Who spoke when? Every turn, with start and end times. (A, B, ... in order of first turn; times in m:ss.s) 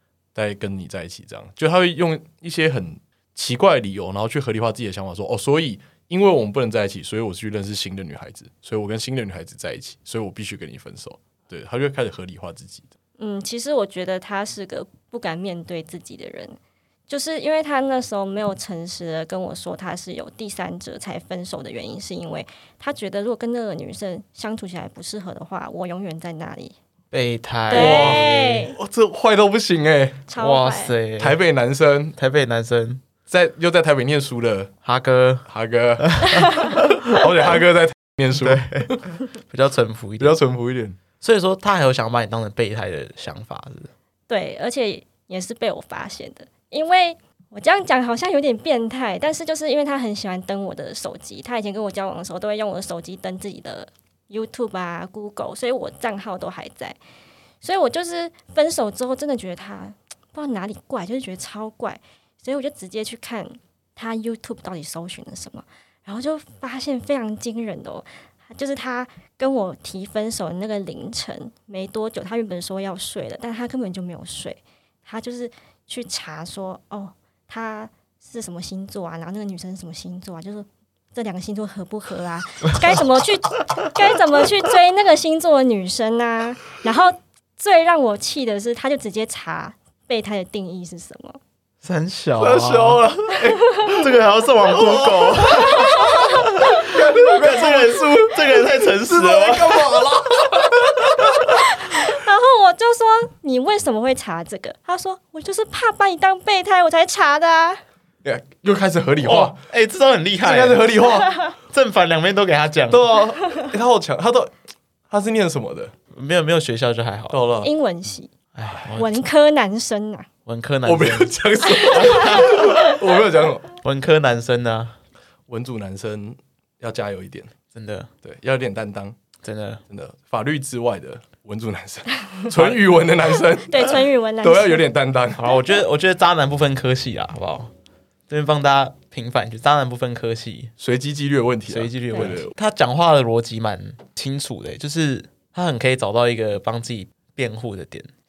0:00.3-0:12.9 A
0:13.2-0:16.6 B
0:17.1-0:26.8 B
0:27.1-0:28.6 C
0:27.7-0:28.8 B
0:27.7-0:30.2 A
0:30.3-0:31.0 B
0:30.4-0:31.4 C
0:31.2-0:32.2 A
0:32.2-0:33.0 C
0:33.3-0:34.7 A
0:34.8-0:35.5 C
0:35.5-0:39.0 A
0:36.1-0:36.9 C
0:38.4-0:40.4 C
0:40.2-0:41.0 A
0:41.2-0:43.9 C
0:44.3-0:57.0 B
0:57.6-1:31.4 B
1:31.8-1:40.1 C
1:32.4-1:34.1 A
1:34.7-1:41.5 A
1:35.7-1:36.1 B
1:41.0-1:41.4 C
1:41.5-1:47.8 B
1:48.2-1:49.6 A
1:49.2-1:50.9 C
1:50.4-1:51.4 A
1:51.6-1:53.1 C
1:52.9-1:54.5 A
1:55.1-1:55.9 A
1:56.1-1:57.4 C
1:57.3-1:57.7 A
1:57.6-1:58.3 B
1:58.5-1:59.2 C
1:58.9-2:00.3 B
2:00.4-2:01.3 C
2:00.8-2:03.7 A
2:01.7-2:02.9 B
2:01.9-2:02.6 C
2:03.8-2:05.0 C
2:05.5-2:07.5 A
2:07.7-2:08.1 C
2:08.2-2:09.2 A
2:09.4-2:09.8 C
2:09.9-2:15.5 A
2:12.5-2:12.8 C
2:13.7-2:14.8 B
2:15.4-2:17.7 C
2:18.3-2:20.7 C
2:20.8-2:22.5 A
2:21.7-2:28.1 C